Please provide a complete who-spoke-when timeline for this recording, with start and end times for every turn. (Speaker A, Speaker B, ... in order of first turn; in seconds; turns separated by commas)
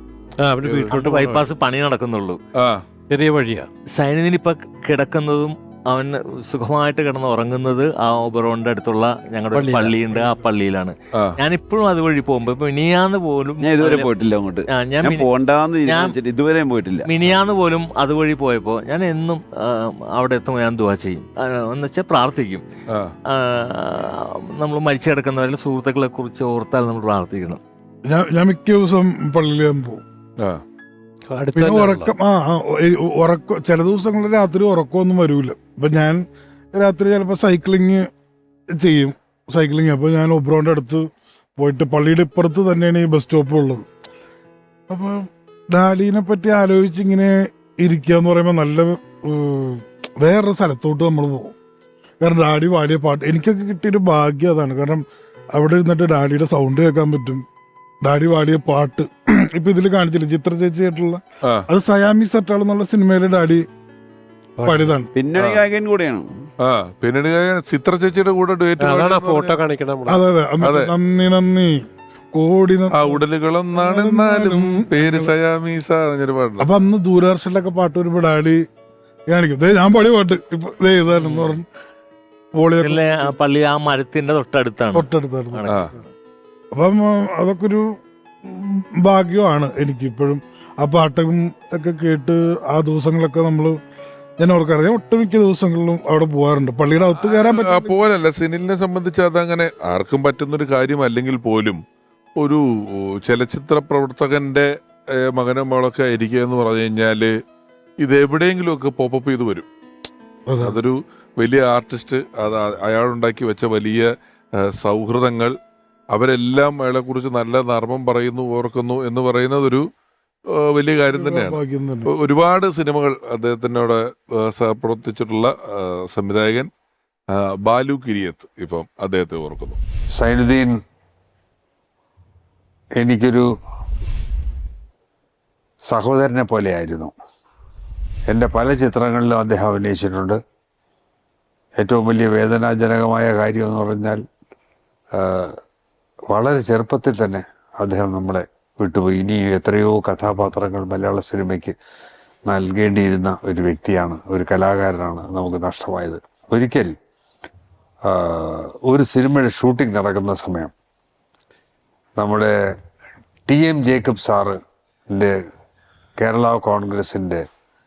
Speaker A: 0.4-1.4, Speaker B: 0.6-0.9, Speaker C: 0.9-2.4, Speaker B: 2.5-2.8, Speaker A: 3.1-3.7, Speaker C: 4.0-14.1, Speaker A: 9.5-10.3, Speaker B: 11.1-11.4, Speaker D: 13.6-17.1, Speaker C: 14.7-15.3, Speaker C: 15.9-16.1, Speaker C: 17.1-22.6, Speaker B: 22.9-23.1, Speaker C: 23.3-27.6, Speaker E: 28.1-30.0, Speaker A: 31.3-32.1, Speaker E: 31.5-36.2, Speaker E: 36.7-38.1, Speaker E: 38.8-43.9, Speaker E: 44.9-51.5, Speaker E: 52.2-55.0, Speaker E: 55.5-57.4, Speaker E: 58.0-63.6, Speaker A: 64.6-65.0, Speaker E: 64.7-65.1, Speaker D: 65.2-66.3, Speaker B: 65.4-65.6, Speaker B: 66.6-69.6, Speaker A: 68.8-70.2, Speaker E: 70.1-71.8, Speaker B: 70.6-70.9, Speaker E: 72.3-73.2, Speaker B: 73.0-76.7, Speaker E: 73.7-75.3, Speaker E: 76.6-78.6, Speaker E: 79.3-81.7, Speaker C: 81.2-81.5, Speaker E: 82.6-83.2, Speaker C: 82.8-85.9, Speaker E: 85.0-86.0, Speaker B: 85.7-85.9, Speaker E: 86.7-87.9, Speaker E: 88.4-93.8, Speaker E: 94.4-97.9, Speaker B: 97.2-101.8, Speaker B: 102.4-107.3, Speaker B: 108.0-109.7, Speaker E: 110.5-110.8, Speaker B: 110.6-114.1, Speaker B: 114.6-115.6, Speaker B: 116.1-119.9, Speaker B: 120.5-126.7, Speaker E: 121.1-122.1, Speaker B: 127.3-129.8, Speaker F: 130.2-130.8, Speaker F: 133.0-133.5, Speaker F: 135.9-137.1, Speaker F: 138.3-140.4, Speaker F: 141.8-144.2, Speaker F: 145.2-145.6, Speaker F: 146.3-151.8, Speaker F: 152.5-156.9, Speaker F: 158.1-160.7, Speaker F: 162.2-162.6, Speaker F: 163.5-164.6, Speaker F: 166.2-167.4